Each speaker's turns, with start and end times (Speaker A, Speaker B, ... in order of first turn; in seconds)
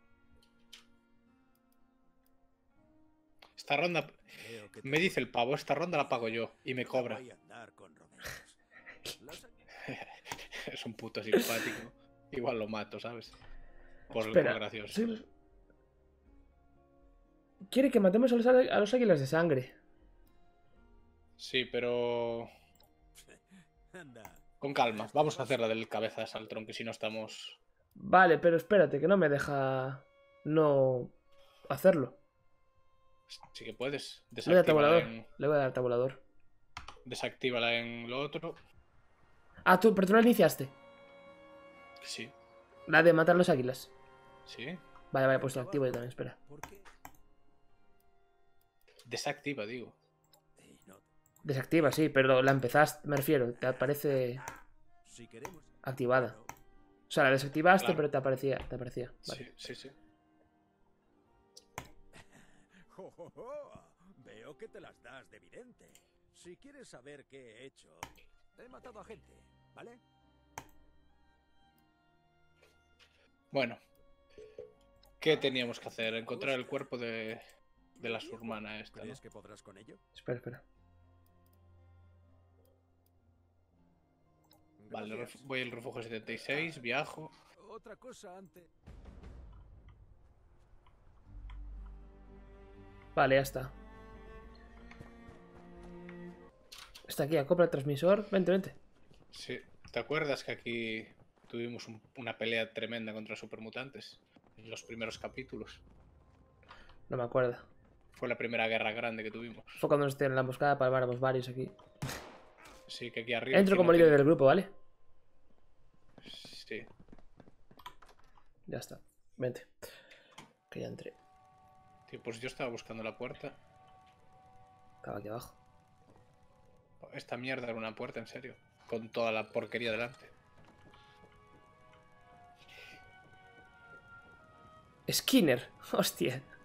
Speaker A: 3.6-4.2, 4.8-7.2, 9.8-13.3, 14.1-15.2, 21.4-22.5, 24.6-27.6, 33.3-35.2, 37.0-38.6, 42.0-42.3, 44.5-44.8, 49.0-50.0, 57.8-58.0, 59.2-60.0, 73.5-73.8, 75.2-77.4, 78.0-79.2, 84.9-87.3, 99.3-105.8, 108.1-109.8, 112.9-114.2, 116.2-116.9, 122.1-123.6, 127.0-130.3
Speaker B: 4.3-5.3, 6.6-8.6, 9.1-9.6, 23.1-25.7, 45.3-46.9, 50.5-51.1, 53.5-54.5, 55.0-56.5, 62.1-70.0, 76.1-76.9, 77.9-80.0, 84.8-85.5, 86.4-86.8, 87.6-88.7
Speaker C: 14.1-15.2, 17.7-19.7, 27.9-31.1, 31.7-32.2, 34.4-36.2, 39.6-40.7, 42.9-43.9, 45.1-46.4, 51.4-54.4, 55.8-56.4, 57.1-59.5, 80.1-80.6, 93.1-93.7, 97.1-98.8, 107.1-107.7, 109.8-111.8, 113.5-114.7, 118.7-119.7, 120.7-121.2, 125.0-125.6, 135.1-136.5